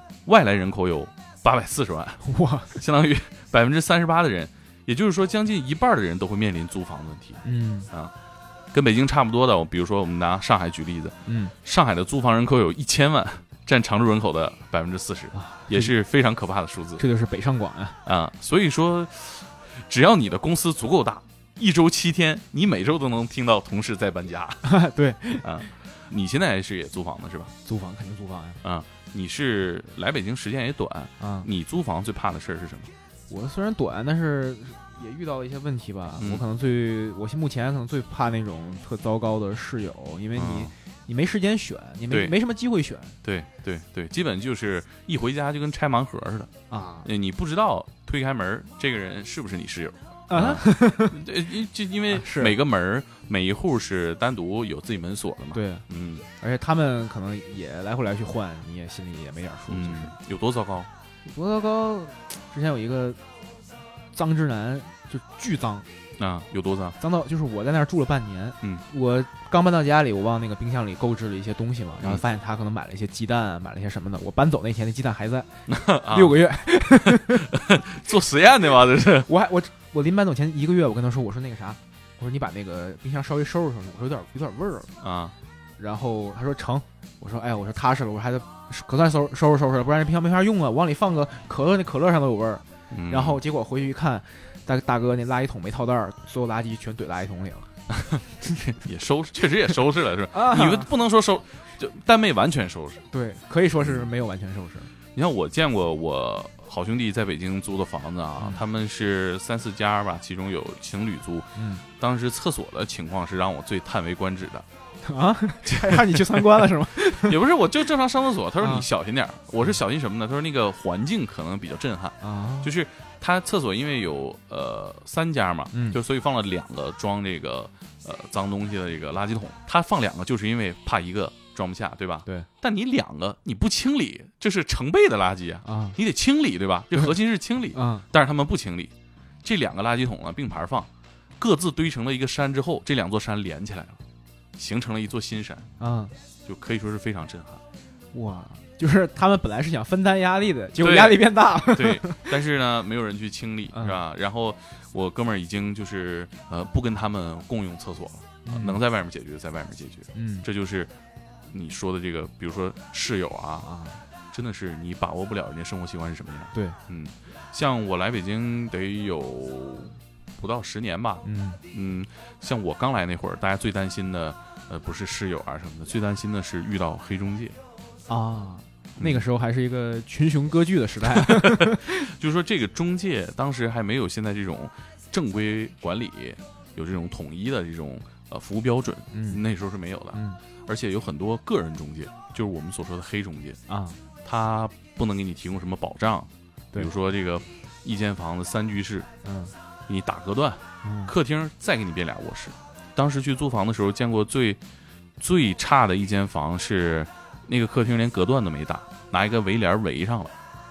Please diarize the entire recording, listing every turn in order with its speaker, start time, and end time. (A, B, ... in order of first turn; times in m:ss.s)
0:00.2-0:08.1 A
0:02.2-0:02.7 B
0:07.4-0:07.9 B
0:08.7-0:17.0 A
0:11.3-0:11.5 B
0:15.3-0:15.9 B
0:17.0-0:18.0 B
0:18.0-0:24.7 A
0:24.6-0:25.7 B
0:25.4-0:27.5 A
0:27.6-0:28.6 B
0:28.6-0:32.9 A
0:31.2-0:31.5 B
0:33.3-0:43.2 B
0:36.2-0:36.4 A
0:40.3-0:40.7 A
0:42.1-0:42.4 A
0:43.2-0:46.5 A
0:46.7-0:47.1 B
0:47.0-0:56.2 A
0:50.3-0:51.3 B
0:52.1-0:52.6 B
0:55.5-0:55.8 B
0:56.4-1:00.1 B
0:59.7-1:00.9 A
1:01.2-1:03.2 B
1:04.1-1:05.9 B
1:06.2-1:07.0 A
1:07.0-1:15.6 B
1:15.7-1:19.3 A
1:16.1-1:17.5 B
1:19.2-1:24.9 B
1:25.0-1:25.3 A
1:25.8-1:37.7 B
1:32.9-1:33.4 A
1:37.9-1:43.0 A
1:40.3-1:40.9 B
1:43.1-1:44.9 B
1:43.8-1:44.1 A
1:45.1-1:54.6 A
1:51.6-1:51.8 B
1:55.0-1:57.4 B
1:55.7-2:18.9 A
1:58.6-1:58.9 B
2:02.2-2:02.7 B
2:05.7-2:06.0 B
2:15.6-2:16.0 B
2:17.7-2:18.0 B
2:19.4-2:24.0 A
2:24.6-2:25.7 A
2:25.8-2:26.1 B
2:26.4-2:27.6 A
2:28.1-2:32.4 B
2:30.8-2:40.9 A
2:33.7-2:34.0 B
2:38.4-2:38.8 B
2:40.1-2:40.5 B
2:41.5-2:43.7 A
2:43.6-2:44.0 B
2:44.3-2:57.6 A
2:51.2-2:51.6 B
2:58.1-3:02.1 B
2:59.0-2:59.2 A
3:01.1-3:13.6 A
3:09.1-3:09.4 B
3:10.1-3:10.4 B
3:13.7-3:14.0 B
3:14.2-3:19.1 A
3:19.2-3:19.5 B
3:19.9-3:24.6 A
3:20.8-3:21.1 B
3:25.2-3:30.3 A